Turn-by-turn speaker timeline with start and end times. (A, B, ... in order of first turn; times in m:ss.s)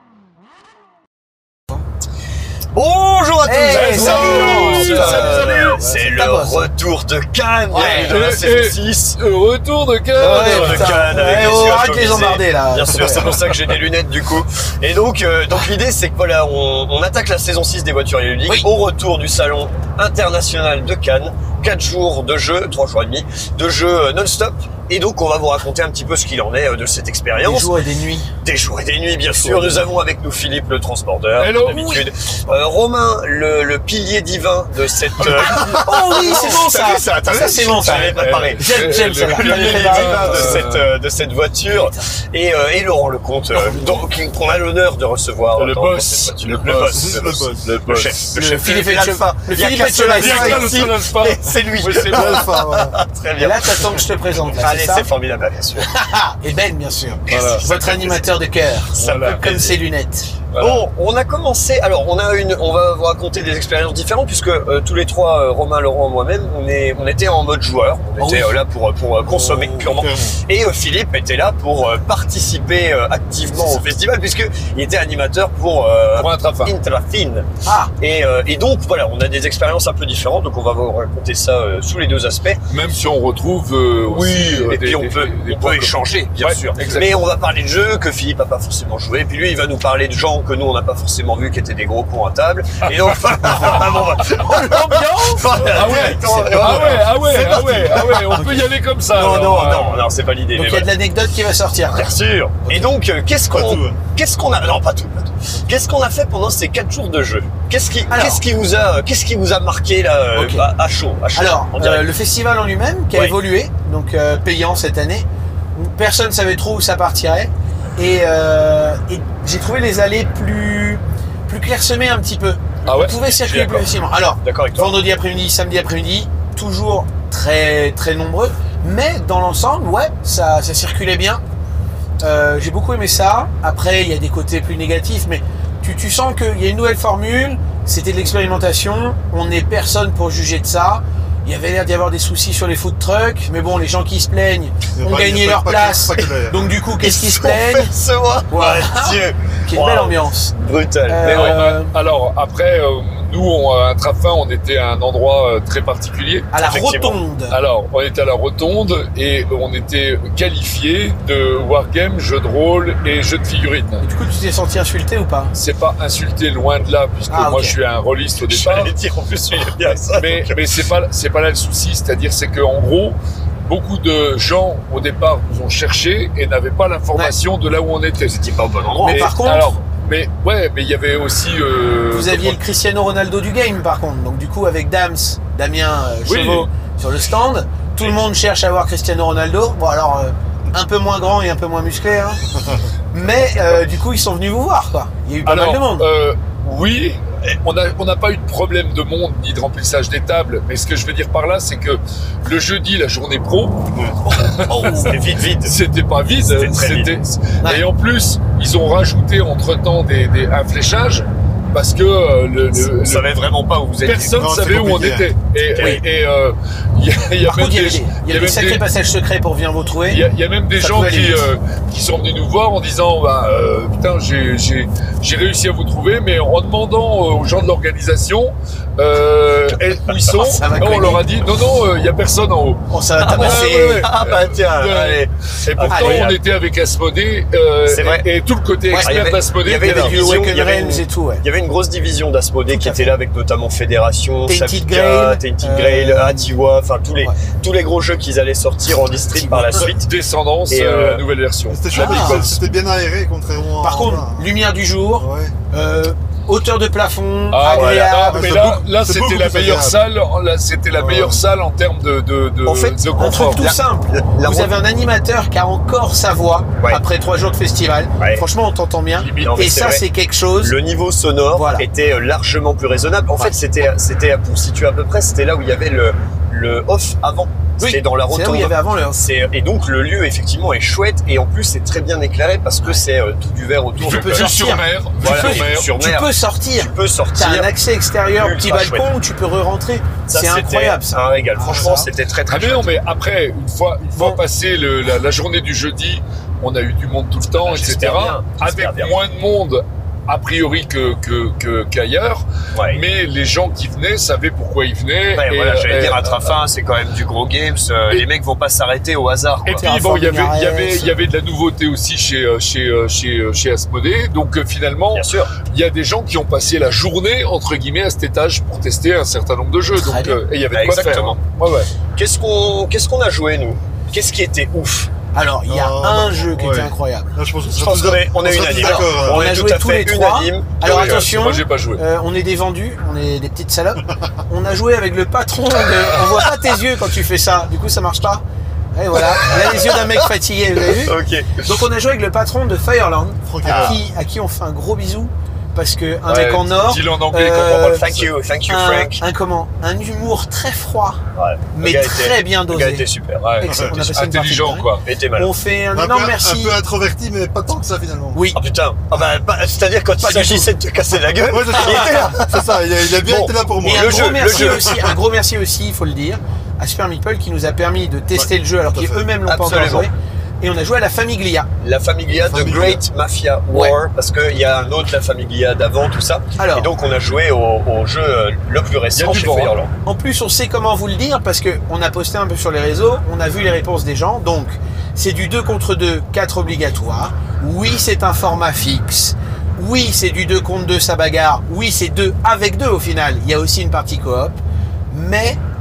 0:02.7-0:09.2 A
0:03.4-0:06.7 B
0:03.7-0:05.8 C
0:07.7-0:08.2 B
0:07.8-0:11.2 C
0:10.1-0:27.7 A
0:10.2-0:13.5 B
0:27.4-0:28.3 B
0:28.4-0:55.9 A
0:29.4-0:29.8 B
0:31.4-0:32.0 C
0:31.7-0:32.6 B
0:35.3-0:40.6 B
0:37.9-0:40.9 C
0:41.7-0:42.0 B
0:43.5-0:44.0 B
0:45.5-0:48.3 C
0:46.9-0:47.7 D
0:48.3-0:50.8 B
0:49.8-0:52.6 C
0:52.1-0:53.0 D
0:53.4-0:55.1 B
0:55.8-1:00.3 B
0:57.3-0:58.4 A
0:57.3-0:57.6 C
0:58.9-0:59.8 A
0:59.0-0:59.4 C
1:00.5-1:00.8 C
1:00.6-1:17.5 A
1:08.2-1:08.5 B
1:09.2-1:10.4 D
1:16.1-1:16.7 C
1:17.6-1:17.9 B
1:18.0-1:22.6 A
1:22.7-1:27.1 C
1:24.1-1:38.4 A
1:32.8-1:40.1 C
1:36.6-1:36.8 D
1:38.1-1:38.6 D
1:39.1-1:40.9 A
1:40.5-1:42.1 B
1:41.9-1:52.1 A
1:42.6-1:42.9 B
1:43.5-1:44.0 D
1:48.1-1:48.4 B
1:50.3-1:50.6 B
1:51.3-2:11.4 B
2:02.8-2:03.9 A
2:02.9-2:03.1 C
2:04.4-2:05.0 A
2:12.2-2:27.9 B
2:25.0-2:26.6 D
2:27.0-2:31.6 A
2:28.5-2:30.5 B
2:31.1-2:31.9 B
2:31.2-2:36.5 C
2:36.5-2:37.6 B
2:36.6-2:37.2 A
2:37.5-2:44.0 C
2:44.0-2:45.5 B
2:45.5-2:48.9 C
2:47.3-2:47.7 B
2:48.4-2:50.6 A
2:49.8-2:58.4 C
2:58.2-2:59.3 A
2:59.0-2:59.7 B
2:59.0-3:02.6 C
3:02.1-3:12.4 B
3:06.2-3:06.7 C
3:13.1-3:16.1 B
3:15.4-3:33.4 C
3:24.3-3:25.7 A
3:26.5-3:27.1 A
3:32.8-3:34.6 A
3:34.0-3:38.8 C
3:34.4-3:35.3 D
3:35.7-3:36.0 A
3:37.4-3:40.2 B
3:40.0-4:00.4 C
3:40.8-3:41.5 B
3:50.4-3:51.2 B
3:52.9-3:54.1 B
3:53.2-3:56.4 A
3:55.9-3:56.3 B
3:57.9-3:58.2 A
3:58.9-4:01.4 B
3:59.0-4:10.1 A
4:02.7-4:03.1 B
4:04.5-4:06.5 B
4:09.3-4:09.9 B
4:09.9-4:12.7 C
4:10.7-4:11.2 A
4:11.7-4:14.5 D
4:11.9-4:12.5 B
4:13.8-4:18.6 B
4:15.2-4:15.5 D
4:17.5-4:23.6 C
4:17.7-4:18.1 A
4:18.3-4:20.0 D
4:21.0-4:21.4 D
4:22.6-4:24.7 A
4:23.2-4:30.8 B
4:28.2-4:28.4 A
4:29.2-4:29.7 C
4:29.4-4:30.0 A
4:30.6-4:44.5 A
4:31.5-4:31.8 B
4:37.8-4:39.2 B
4:44.0-4:52.1 B
4:44.0-4:45.9 C
4:45.2-4:47.7 A
4:48.3-4:49.1 A
4:50.3-4:52.9 A
4:52.5-5:06.5 C
4:54.1-4:54.4 B
4:57.5-4:59.1 A
5:02.8-5:03.0 A
5:05.4-5:09.8 A
5:09.6-5:21.9 C
5:09.7-5:11.2 B
5:15.1-5:15.5 A
5:20.0-5:20.4 B
5:20.7-5:21.4 A
5:22.1-5:25.1 A
5:25.3-5:27.4 B
5:25.7-5:29.5 D
5:27.7-5:31.3 A
5:28.8-5:48.1 B
5:30.8-5:32.0 C
5:39.2-5:40.2 A
5:40.8-5:41.6 A
5:43.4-5:44.0 D
5:43.6-5:44.0 A
5:46.3-5:48.3 C
5:48.0-5:49.2 A
5:48.7-5:51.2 B
5:51.3-5:53.4 A
5:51.7-5:53.1 B
5:53.4-5:55.0 C
5:53.6-5:56.8 B
5:53.6-5:53.9 D
5:55.0-5:55.5 A
5:55.9-5:58.4 D
5:58.3-5:58.6 B
5:58.5-6:05.1 A
6:00.2-6:00.7 B
6:01.5-6:05.1 D
6:03.8-6:11.7 B
6:08.9-6:09.3 D
6:09.4-6:10.1 A
6:11.8-6:19.9 A
6:12.4-6:13.0 D
6:16.6-6:16.9 B
6:19.1-6:19.7 C
6:20.0-6:34.6 B
6:35.1-6:35.6 B